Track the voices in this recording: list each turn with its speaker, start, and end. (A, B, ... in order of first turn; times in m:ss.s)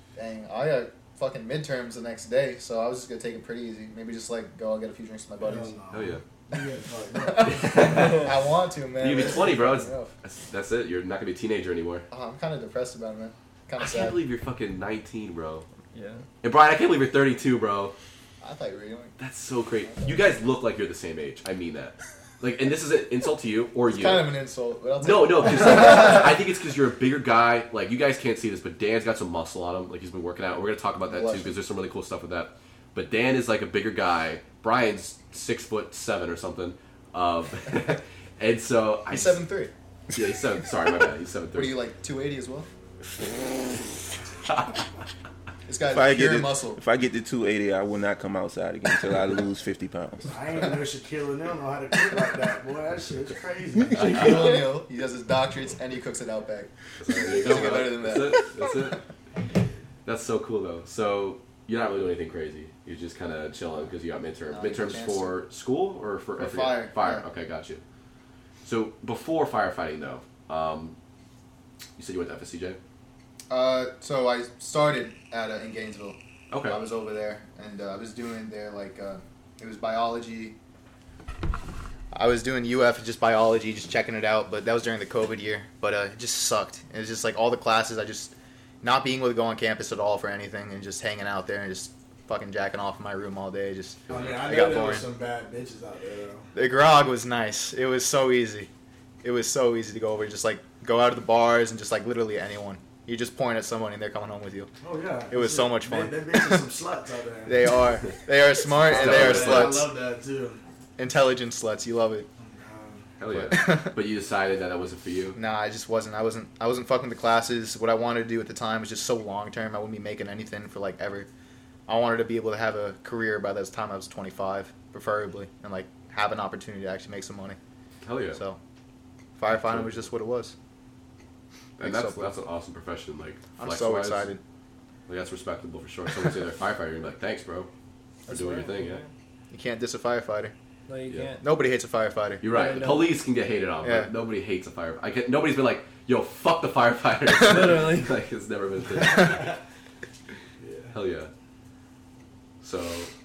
0:00.2-0:05.8 A
0:05.4-0:08.2 B
0:05.9-0:06.2 C
0:07.2-0:10.1 A
0:07.6-0:08.3 C
0:09.0-0:12.1 C
0:12.1-0:14.2 A
0:13.8-0:15.7 C
0:15.9-0:16.2 D
0:16.4-0:18.0 C
0:18.4-0:19.2 A
0:19.2-0:24.3 C
0:19.8-0:20.3 A
0:23.9-0:26.4 A
0:25.0-0:39.4 C
0:31.1-0:31.5 A
0:39.1-0:39.7 A
0:40.1-0:41.8 C
0:41.5-0:42.7 A
0:45.7-0:46.8 A
0:45.9-0:50.4 E
0:50.3-0:54.4 B
0:54.0-0:54.7 C
0:54.0-0:58.7 A
0:57.0-0:59.0 C
1:00.0-1:07.8 C
1:04.5-1:05.3 A
1:06.4-1:07.2 A
1:08.6-1:11.0 C
1:12.0-1:12.8 C
1:13.5-1:20.6 A
1:16.5-1:16.8 C
1:22.1-1:35.1 A
1:34.1-1:34.5 C
1:34.1-1:36.5 B
1:36.5-1:38.7 A
1:39.2-1:44.7 A
1:44.8-1:47.8 B
1:45.3-1:46.7 A
1:47.5-1:49.9 A
1:48.7-1:50.6 B
1:48.9-1:49.8 C
1:51.0-1:52.3 A
1:52.4-1:53.1 B
1:53.2-1:55.4 C
1:53.3-1:54.0 A
1:55.4-2:01.3 A
2:01.9-2:07.6 A
2:08.0-2:08.4 C
2:08.3-2:08.6 A
2:09.4-2:10.6 A
2:09.5-2:10.1 C
2:11.8-2:14.3 C
2:11.8-2:12.3 A
2:13.6-2:14.4 A
2:15.1-2:17.7 C
2:18.3-2:19.1 D
2:18.3-2:19.0 C
2:19.5-2:20.5 A
2:20.9-2:21.4 D
2:21.4-2:22.4 A
2:22.4-2:29.6 C
2:22.4-2:23.1 D
2:23.8-2:24.1 A
2:27.4-2:28.2 D
2:27.5-2:27.8 A
2:29.2-2:29.6 B
2:30.6-2:31.0 B
2:30.9-2:31.3 C
2:32.6-2:33.1 C